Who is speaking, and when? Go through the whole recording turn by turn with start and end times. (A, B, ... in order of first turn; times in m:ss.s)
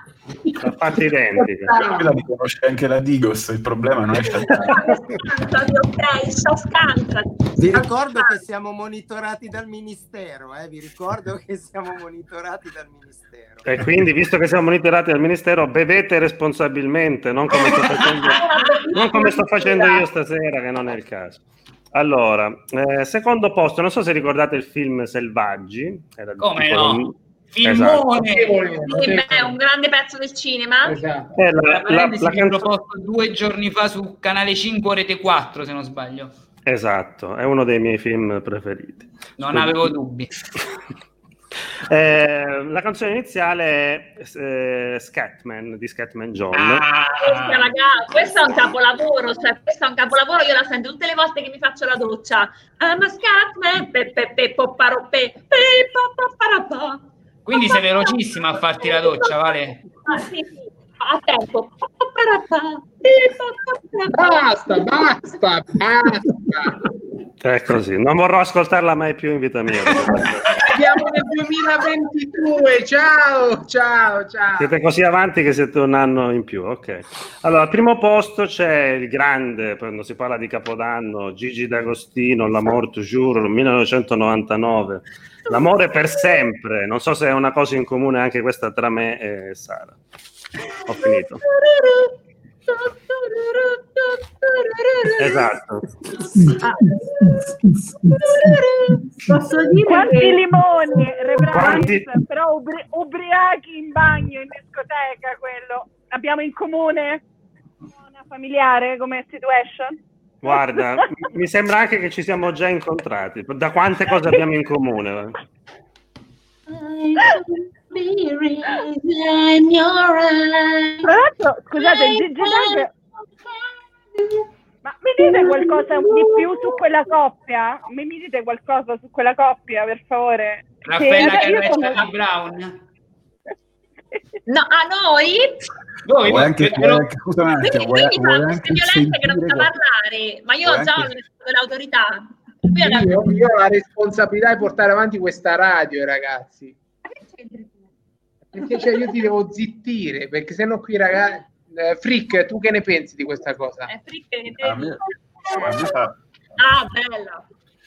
0:00.6-0:01.8 A
0:01.8-0:04.8 B
0:04.7-0:08.4 C
0:07.6-0:13.6 D
0:13.6-0:28.1 A
0:17.6-0:18.4 E
0:18.3-0:20.0 C
0:26.4-0:29.6 E
0:28.1-0:29.5 F
0:28.8-0:31.0 C
0:30.8-0:31.3 F
0:31.3-0:32.7 A
0:31.6-0:36.4 E
0:36.6-0:39.9 A
0:39.4-0:40.3 E
0:41.9-0:46.8 A
0:46.5-0:47.8 E
0:47.2-0:57.0 C
0:57.4-0:59.8 E
0:58.8-0:59.3 C
1:00.0-1:04.4 C
1:04.1-1:06.7 F
1:07.4-1:10.5 A
1:10.5-1:10.8 E
1:10.7-1:14.7 F
1:14.6-1:30.0 A
1:30.9-1:31.4 A
1:33.2-1:35.4 C
1:35.2-1:35.9 A
1:39.2-1:41.8 G
1:39.8-1:47.2 H
1:41.5-1:42.1 A
1:47.9-1:50.0 H
1:50.4-1:55.4 A
1:56.7-2:01.1 C
2:01.0-2:02.9 H
2:01.8-2:02.9 C
2:04.8-2:12.0 H
2:05.3-2:06.6 C
2:10.8-2:12.8 E
2:14.5-2:15.5 C
2:16.0-2:17.1 E
2:16.2-2:19.7 B
2:17.6-2:23.1 C
2:20.6-2:21.1 B
2:22.7-2:26.8 F
2:27.2-2:27.7 C
2:28.5-2:33.9 F
2:33.9-2:35.9 C
2:34.6-2:35.0 B
2:35.6-2:36.1 B
2:36.6-2:37.4 C